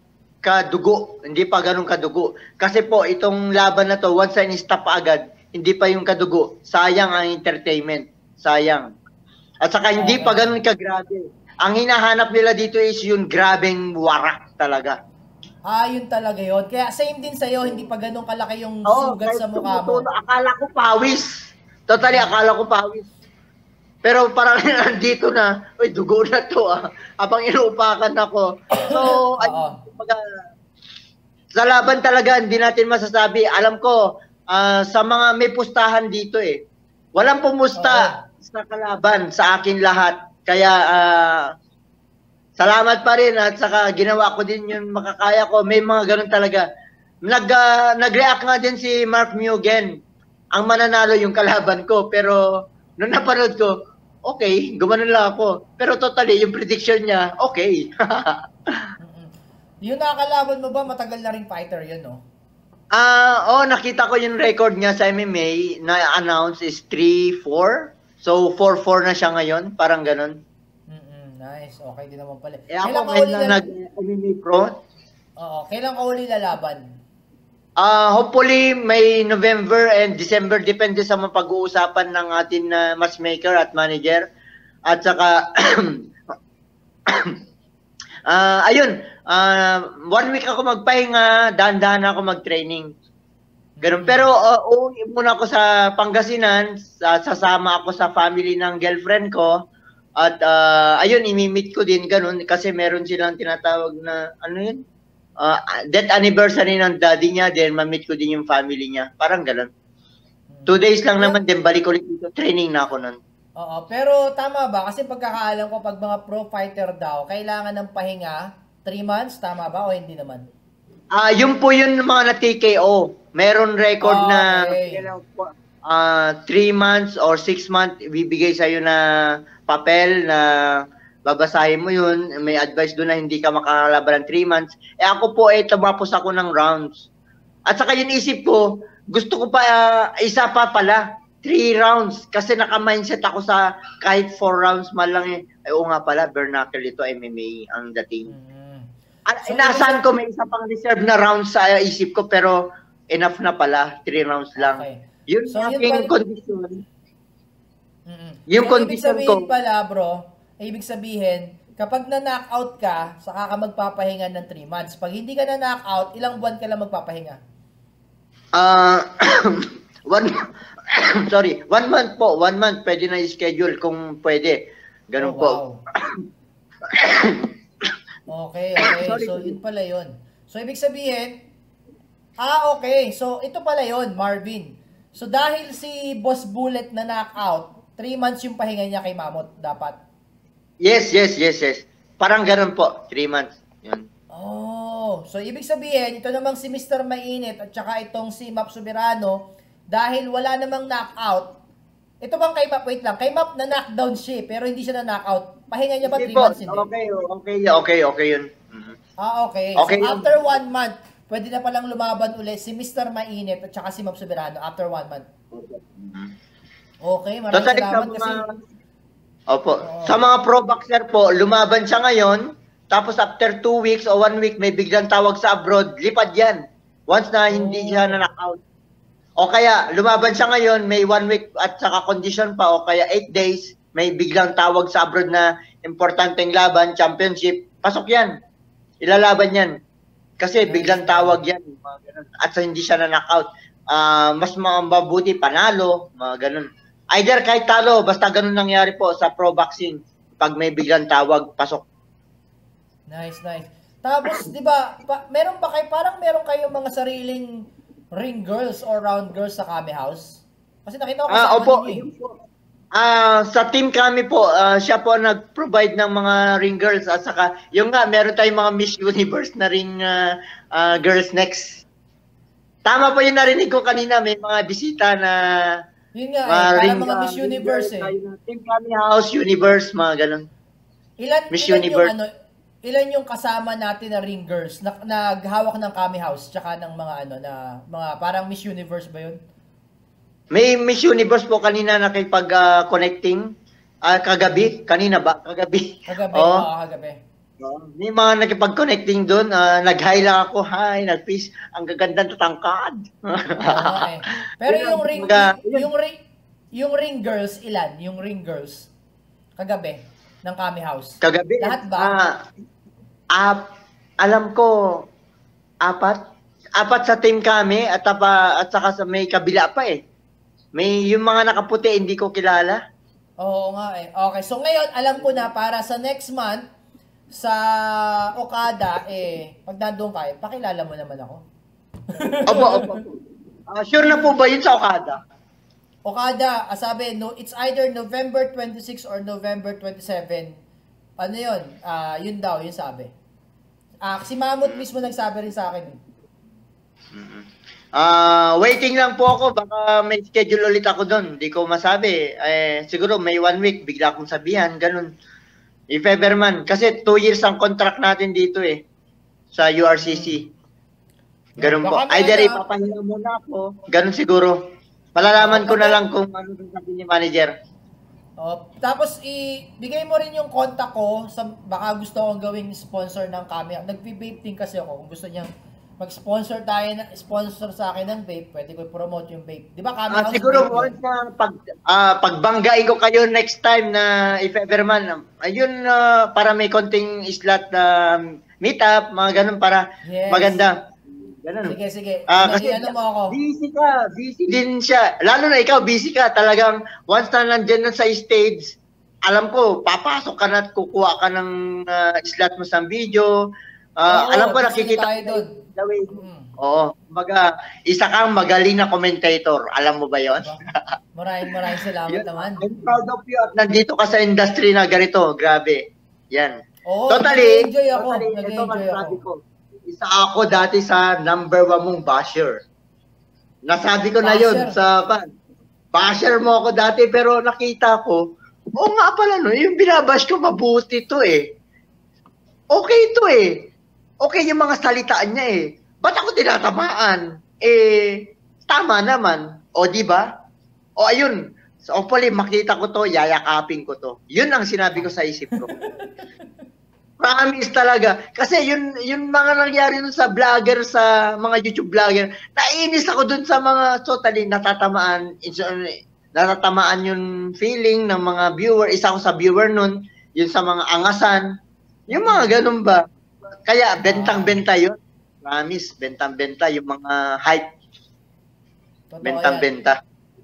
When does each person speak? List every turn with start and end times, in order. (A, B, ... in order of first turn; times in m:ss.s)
0:00.4-0:08.9 A
0:09.6-0:15.0 A
0:10.0-0:10.5 B
0:15.7-0:20.0 B
0:18.9-0:21.3 A
0:21.9-0:23.1 A
0:22.0-0:22.3 B
0:24.0-0:30.2 A
0:28.8-0:29.8 B
0:31.6-0:34.0 A
0:34.5-0:36.6 A
0:37.2-0:41.5 A
0:37.8-0:38.2 B
0:42.6-0:46.6 A
0:47.2-0:49.9 A
0:50.6-0:52.4 A
0:53.0-0:53.7 A
0:54.2-0:58.4 A
0:59.0-0:59.3 B
0:59.8-1:02.2 B
1:02.9-1:10.4 A
1:10.9-1:13.6 B
1:12.7-1:14.7 A
1:15.4-1:16.8 B
1:17.8-1:24.2 A
1:24.9-1:26.0 A
1:27.1-1:27.3 A
1:28.3-1:32.9 A
1:33.8-1:34.3 B
1:33.8-1:39.5 A
1:40.2-1:44.8 A
1:45.4-1:49.7 A
1:50.5-1:51.4 B
1:50.7-1:53.2 A
1:53.6-2:00.5 B
2:01.2-2:09.0 A
2:04.0-2:05.0 B
2:09.6-2:10.5 A
2:11.3-2:17.1 A
2:17.7-2:28.3 A
2:28.3-2:28.9 B
2:29.3-2:32.6 A
2:29.4-2:30.0 B
2:33.1-2:36.8 A
2:34.6-2:36.1 B
2:38.1-2:47.4 B
2:38.5-2:39.4 A
2:48.6-2:50.3 A
2:50.9-2:54.6 A
2:55.1-2:56.2 A
2:55.2-2:55.8 B
2:56.9-2:57.5 A
2:58.3-3:01.3 B
2:58.8-2:59.6 A
3:02.4-3:10.0 B
3:10.8-3:14.1 A
3:14.3-3:19.4 B
3:19.9-3:21.5 B
3:22.2-3:26.9 B
3:26.0-3:29.0 A
3:29.2-3:35.2 B
3:29.8-3:30.3 A
3:35.5-3:36.3 A
3:37.0-3:38.4 B
3:37.5-3:38.5 A
3:39.5-3:48.6 A
3:39.8-3:40.2 B
3:47.5-3:48.2 B
3:49.4-3:58.3 A
3:59.0-3:59.7 A
4:00.4-4:11.8 A
4:00.6-4:01.4 B
4:13.1-4:17.5 B
4:18.1-4:22.0 B
4:21.3-4:22.3 A
4:23.0-4:31.8 A
4:32.8-4:35.4 A
4:36.2-4:38.1 B
4:36.5-4:40.5 A
4:41.2-4:42.3 B
4:41.5-4:42.1 A
4:42.8-4:49.4 B
4:50.5-4:53.4 A
4:54.1-4:56.6 A
4:56.1-4:57.2 B
4:57.6-5:04.1 A
5:03.7-5:06.1 B
5:04.7-5:05.9 A
5:06.8-5:08.9 B
5:09.6-5:12.1 B
5:11.2-5:12.3 A
5:13.4-5:13.7 A
5:14.2-5:14.7 A
5:15.8-5:16.2 A
5:16.8-5:20.0 A
5:20.8-5:22.8 A
5:23.4-5:26.6 B
5:27.3-5:27.6 B
5:28.3-5:31.4 B
5:32.1-5:33.0 B
5:32.5-5:33.1 A
5:33.7-5:35.2 A
5:36.0-5:40.5 B
5:41.2-5:43.1 B
5:44.0-5:46.0 B
5:47.1-5:55.1 A
5:55.9-5:58.8 A
5:59.5-6:00.5 A
6:00.0-6:00.3 B
6:01.6-6:02.6 B
6:01.6-6:04.6 A
6:05.2-6:07.5 A
6:05.4-6:06.0 B
6:08.4-6:15.5 B
6:16.0-6:20.9 B
6:20.1-6:31.8 A
6:30.0-6:30.6 B
6:31.6-6:33.4 B
6:32.3-6:38.8 A
6:39.3-6:43.3 A
6:44.0-6:50.4 A
6:44.1-6:45.4 B
6:46.1-6:46.5 B
6:51.2-6:52.8 B
6:52.1-6:56.5 A
6:56.9-6:59.2 B
6:57.1-7:02.6 A
7:03.7-7:05.2 A
7:04.2-7:04.8 B
7:05.9-7:08.2 A
7:08.8-7:11.4 A
7:12.7-7:13.7 A
7:14.2-7:20.3 A
7:21.0-7:25.7 A
7:25.0-7:26.2 B
7:27.2-7:41.4 A
7:42.1-7:43.0 A
7:42.1-7:42.6 B
7:43.7-7:47.6 A
7:44.0-7:44.6 B
7:49.1-7:49.7 B
7:49.2-7:50.0 A